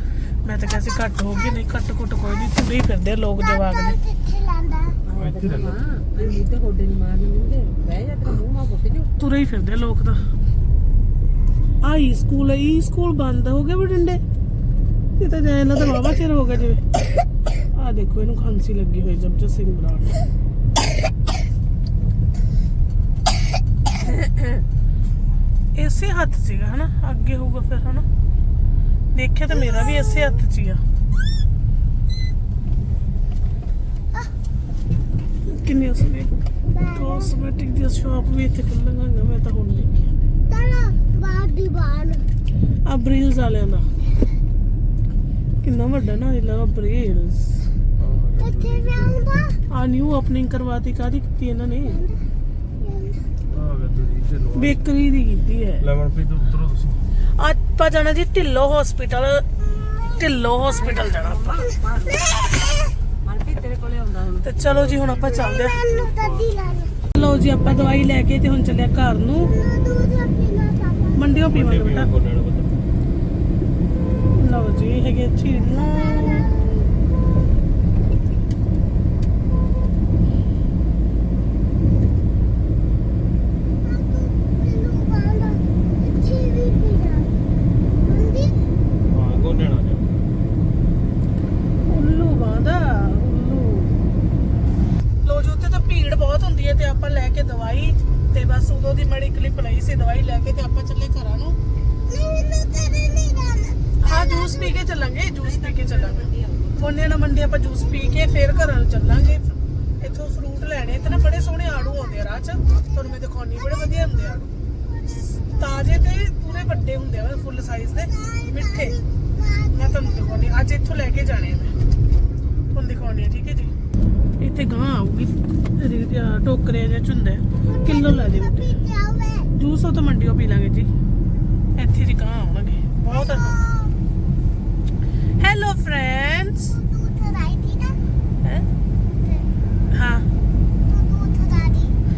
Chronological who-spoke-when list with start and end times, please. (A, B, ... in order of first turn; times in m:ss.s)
0:00.4-0:04.0 A
0:04.0-0:05.0 B
0:05.0-0:09.1 C
0:05.2-0:05.8 D
0:09.2-0:10.2 A
0:11.8-0:14.2 A
0:15.2-0:16.8 A
0:17.7-0:20.2 A
0:24.0-0:24.6 A
0:25.8-0:28.1 A
0:29.1-0:30.8 A
0:35.4-0:36.3 A
0:36.7-0:37.3 B
0:36.9-0:39.9 A
0:40.5-0:42.3 B
0:42.9-0:43.9 A
0:45.6-0:47.6 A
0:48.0-0:49.3 D
0:48.4-0:49.6 B
0:49.7-0:52.0 A
0:52.8-0:53.2 B
0:53.5-0:54.8 D
0:54.6-0:55.9 A
0:55.8-0:57.0 D
0:57.4-1:01.6 A
1:00.7-1:02.3 C
1:03.2-1:04.5 C
1:04.4-1:05.8 A
1:04.6-1:07.0 D
1:05.3-1:06.9 B
1:07.1-1:09.6 A
1:09.6-1:11.4 B
1:11.2-1:12.1 A
1:11.5-1:12.8 D
1:14.4-1:16.5 A
1:16.2-1:17.1 B
1:23.8-1:27.3 B
1:28.0-1:28.7 B
1:29.1-1:30.2 D
1:31.9-1:34.0 A
1:35.2-1:41.6 A
1:42.1-1:44.5 B
1:44.0-1:49.5 A
1:45.4-1:46.9 C
1:50.0-1:54.5 A
1:55.5-1:59.0 A
1:59.6-2:01.7 A
2:02.7-2:03.7 A
2:04.4-2:08.8 A
2:07.8-2:09.5 B
2:09.6-2:10.9 A
2:11.8-2:13.6 A
2:13.3-2:14.0 B
2:15.4-2:16.8 A
2:16.8-2:18.0 B
2:19.1-2:19.5 B
2:19.9-2:20.2 A
2:20.9-2:22.0 B